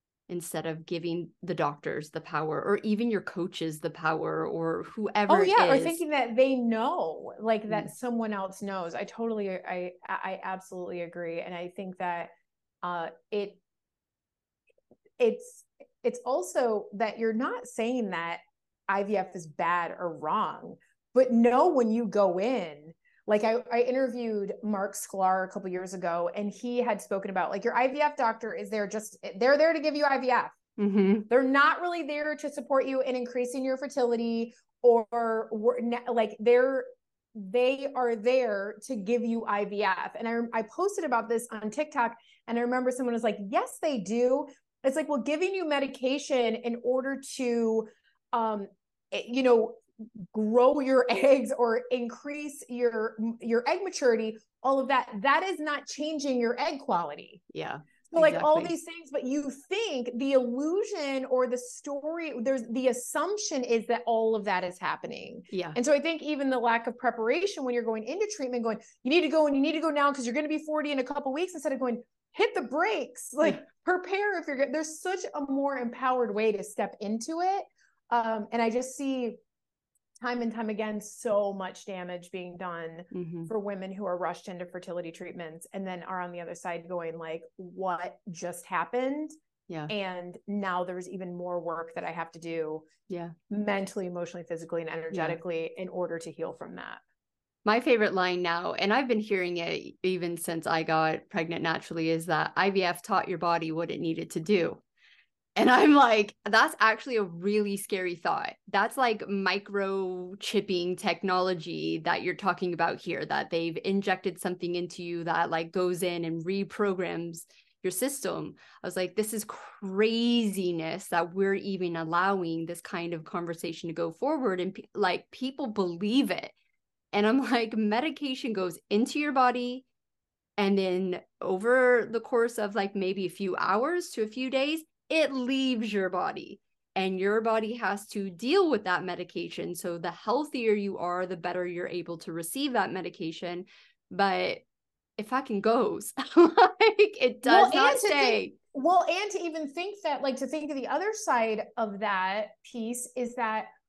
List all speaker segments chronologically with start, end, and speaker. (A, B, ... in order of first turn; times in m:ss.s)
0:00.3-0:06.0 A
0:05.3-0:12.3 B
0:12.8-0:13.6 B
0:15.2-0:30.5 B
0:30.8-0:31.3 A
0:31.3-0:57.4 B
0:57.5-0:58.7 A
0:58.1-1:19.4 B
1:05.5-1:05.8 A
1:20.2-1:29.3 B
1:23.1-1:23.5 A
1:29.9-1:32.8 B
1:33.1-1:33.3 A
1:33.5-1:37.0 B
1:35.1-1:35.4 A
1:37.6-1:44.8 A
1:45.6-2:06.5 A
2:07.1-2:09.8 A
2:10.6-2:24.6 A
2:25.2-2:28.5 A
2:27.4-2:33.7 B